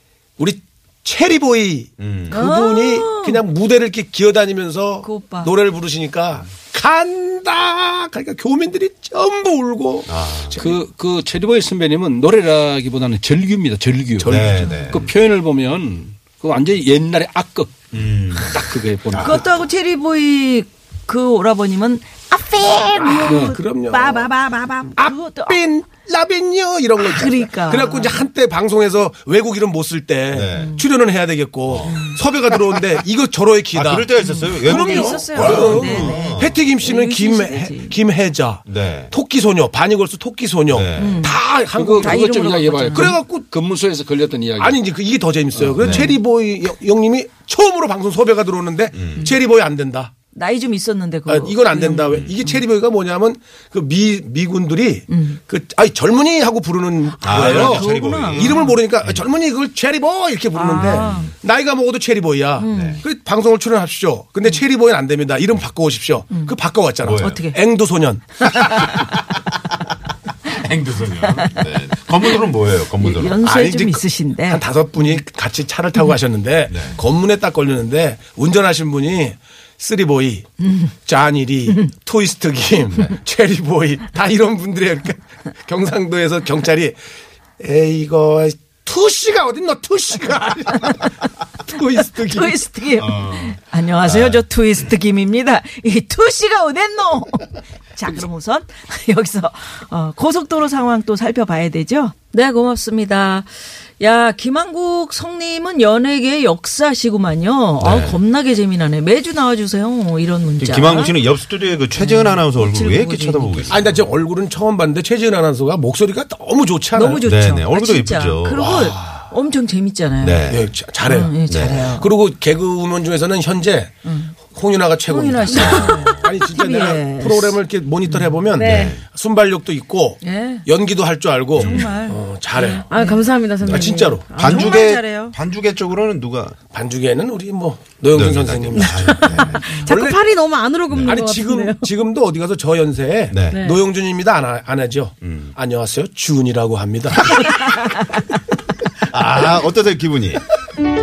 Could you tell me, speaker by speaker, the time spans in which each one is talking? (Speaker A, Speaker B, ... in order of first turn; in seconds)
Speaker A: 0.4-10.8, 14.2-14.6, 22.9-24.3, 25.0-42.4, 42.9-43.5, 44.6-50.1, 51.3-68.4, 73.4-87.0, 87.6-92.6, 113.7-117.2, 118.7-119.2, 120.5-121.3, 122.0-123.9, 124.5-132.9, 133.6-134.3, 136.7-140.2, 141.0-147.4
Speaker B: 2.0-2.4, 10.1-10.6, 14.2-15.1, 17.9-19.4, 30.3-30.8, 31.6-32.0, 33.7-36.6, 38.6-39.1, 40.7-41.3, 45.8-46.1, 48.9-49.3, 57.2-59.2, 60.7-61.3, 62.7-63.0, 67.0-67.4, 68.6-69.2, 70.5-73.4, 76.7-77.0, 92.9-94.4, 107.8-108.2, 110.6-114.0, 117.2-118.9, 120.2-120.7, 121.5-121.9, 125.6-126.2, 128.6-129.0, 131.6-131.9, 133.6-136.6, 138.1-139.7, 140.9-141.2, 143.3-143.7, 145.2-145.5, 149.0-150.4
Speaker C: 2.3-3.4, 5.0-5.5, 14.3-14.9, 19.2-25.6, 27.0-28.2, 30.5-30.8, 31.9-32.2, 34.2-38.0, 41.0-41.4, 42.0-43.2, 50.3-52.6, 55.1-55.4, 57.2-58.8, 60.5-61.3, 62.6-63.0, 67.1-67.6, 68.5-68.9, 71.2-71.6, 73.0-74.6, 92.3-111.2, 111.9-113.8, 116.9-120.5, 121.0-122.1, 124.0-124.3, 125.0-128.5, 130.2-130.7, 131.5-132.2, 132.9-133.3, 134.4-135.3, 139.2-139.8
Speaker D: 10.6-19.5, 23.2-23.6, 41.7-44.8, 45.5-46.0
Speaker E: 128.6-128.9, 132.9-134.5, 138.7-141.9, 143.5-143.8